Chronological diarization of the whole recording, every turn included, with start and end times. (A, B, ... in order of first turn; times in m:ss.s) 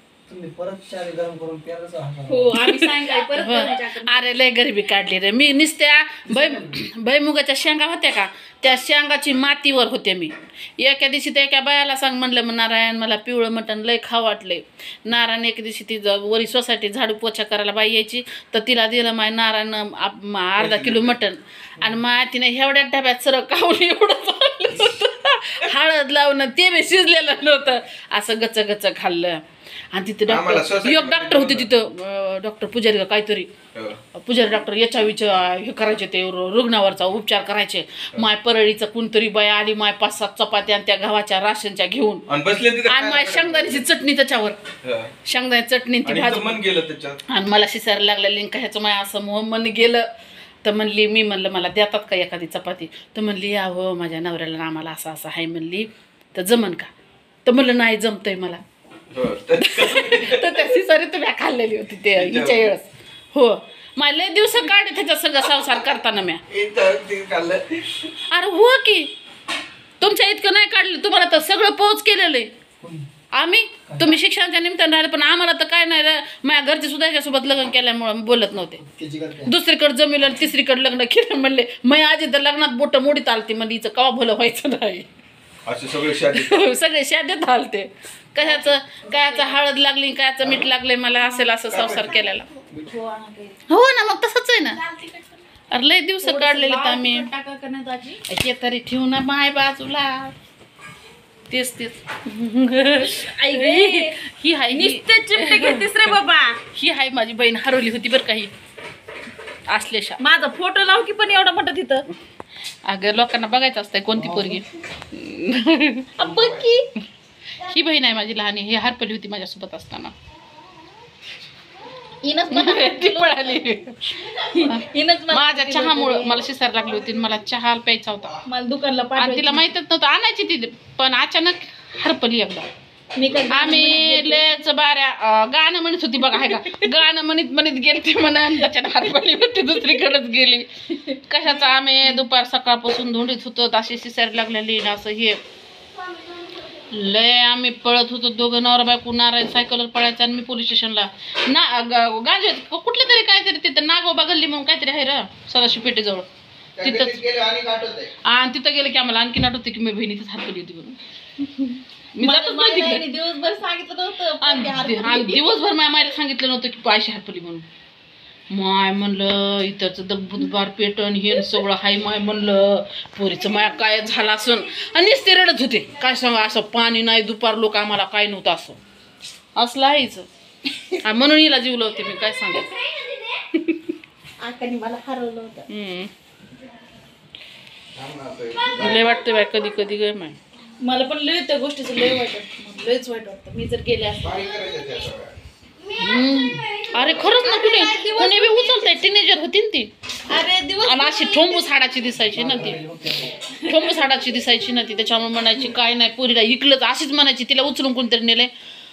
0:00.3-0:02.6 A
0:02.2-0:04.4 B
0:03.1-0:33.5 C
0:06.3-0:06.8 A
0:20.6-0:21.1 D
0:30.3-0:31.7 D
0:34.2-0:42.2 C
0:42.3-0:43.8 D
0:42.9-0:44.6 C
0:44.8-0:45.1 D
0:45.2-0:46.6 C
0:46.0-0:47.2 D
0:47.3-0:50.1 C
0:50.6-0:56.9 C
0:57.4-0:58.6 C
0:59.1-1:00.6 D
0:59.6-1:06.4 C
1:02.1-1:02.7 D
1:06.5-1:08.1 D
1:08.3-1:09.1 C
1:10.0-1:12.5 C
1:12.8-1:13.1 A
1:13.3-1:18.8 C
1:13.9-1:14.1 A
1:18.8-1:19.5 A
1:19.5-1:25.1 C
1:25.7-1:26.7 D
1:26.3-1:32.5 C
1:28.4-1:29.6 B
1:31.2-1:32.0 B
1:31.7-1:32.2 D
1:32.7-1:33.6 B
1:33.7-1:34.8 C
1:34.8-1:35.3 B
1:35.7-1:37.3 C
1:36.2-1:38.2 B
1:38.3-1:40.3 C
1:41.5-1:46.1 C
1:43.0-1:44.2 B
1:44.7-1:46.6 B
1:46.7-1:48.5 C
1:49.7-1:50.2 C
1:50.2-1:52.1 B
1:52.9-1:56.1 C
1:54.2-1:54.6 A
1:56.2-1:56.9 B
1:56.2-1:56.6 D
1:57.6-2:00.1 C
2:02.2-2:03.7 B
2:02.5-2:08.4 C
2:04.3-2:06.5 B
2:08.4-2:09.7 B
2:09.2-2:12.7 C
2:13.1-2:14.5 B
2:13.5-2:25.4 C
2:16.2-2:16.9 B
2:21.0-2:21.7 B
2:26.9-2:36.2 C
2:36.8-2:38.1 D
2:36.8-2:37.2 C
2:38.2-2:43.1 C
2:42.2-2:45.6 B
2:44.4-2:47.7 C
2:48.5-2:58.8 C
2:59.6-3:00.2 C
3:01.0-3:03.0 C
3:03.5-3:03.9 C
3:04.4-3:05.7 B
3:05.7-3:06.1 C
3:07.9-3:09.2 D
3:08.8-3:10.4 C
3:10.8-3:14.6 B
3:14.2-3:15.4 D
3:16.0-3:19.9 C
3:17.1-3:19.0 B
3:20.3-3:21.8 B
3:20.8-3:22.8 C
3:22.3-3:23.4 A
3:23.6-3:24.0 B
3:23.7-3:28.5 C